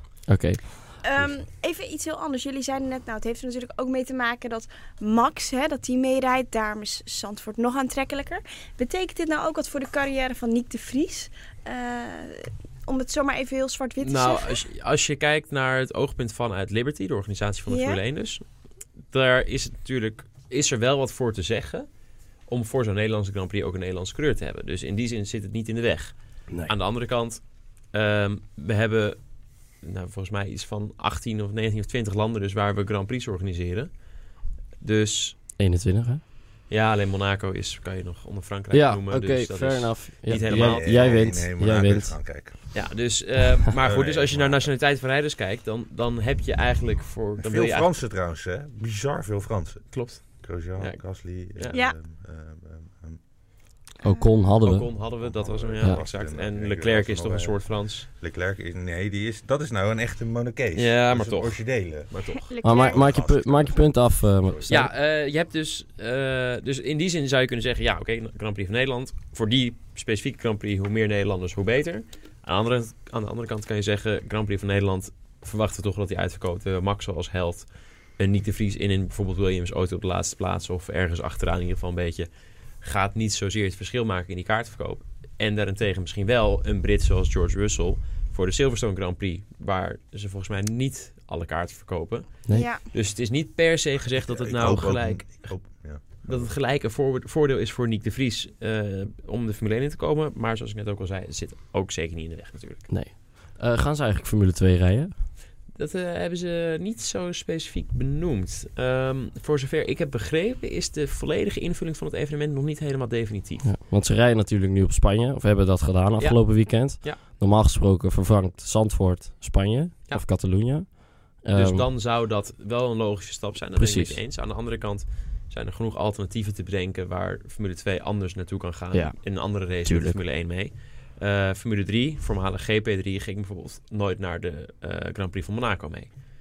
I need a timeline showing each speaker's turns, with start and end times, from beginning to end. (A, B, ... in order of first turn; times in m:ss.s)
0:00.3-0:00.6 A
0:01.0-0:14.6 B
0:14.0-0:18.4 C
0:17.7-0:18.0 B
0:19.1-0:21.9 C
0:22.5-0:29.2 C
0:29.8-0:33.9 C
0:34.8-0:35.4 C
0:35.6-0:36.2 A
0:36.7-0:41.2 C
0:38.7-0:42.2 A
0:40.4-0:42.6 D
0:42.7-0:47.9 C
0:43.8-0:44.7 D
0:47.4-0:53.2 D
0:49.9-0:51.0 C
0:54.0-0:54.9 A
0:54.0-0:54.3 B
0:54.6-0:58.1 C
0:55.2-1:02.1 D
1:00.8-1:02.5 C
1:02.5-1:03.1 B
1:02.6-1:04.9 A
1:02.7-1:04.9 D
1:04.7-1:22.3 C
1:22.8-1:35.6 C
1:32.5-1:32.8 B
1:34.1-1:36.5 D
1:36.2-1:42.9 C
1:42.9-1:45.1 A
1:45.8-1:53.7 C
1:53.6-2:01.9 A
1:56.2-1:57.2 C
2:01.6-2:16.1 C
2:03.8-2:04.2 A
2:09.8-2:10.2 A